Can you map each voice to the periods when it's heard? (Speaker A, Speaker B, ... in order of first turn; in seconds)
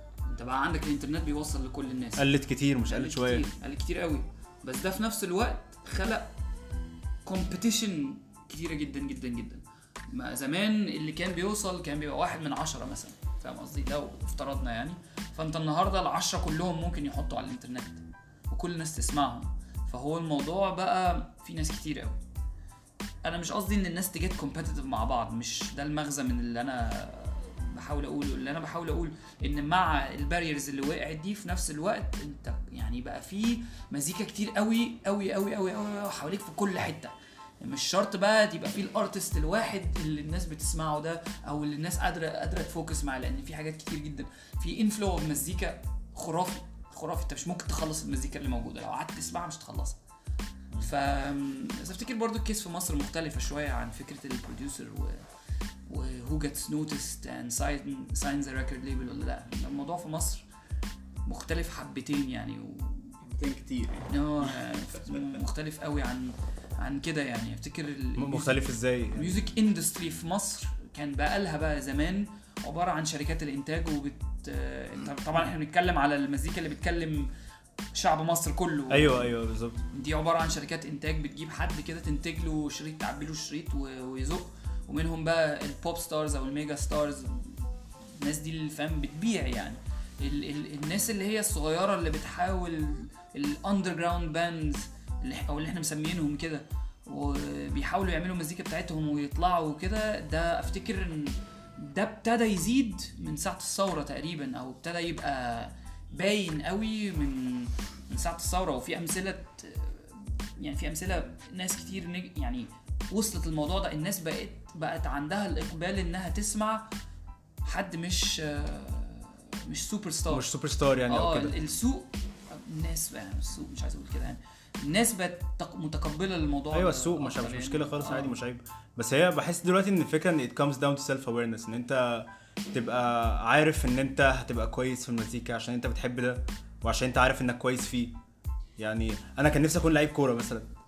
Speaker A: 0.3-2.3, 2.9-6.3, 7.2-22.2, 23.3-50.0, 50.8-55.3, 55.9-60.5, 61.3-63.2, 64.1-77.3, 77.9-79.4, 79.9-116.9, 117.7-120.5, 121.1-128.3
Speaker B: 2.2-3.5, 68.2-69.4, 78.9-79.8, 120.3-121.5, 126.7-138.2, 138.8-140.7
Speaker C: 63.2-65.2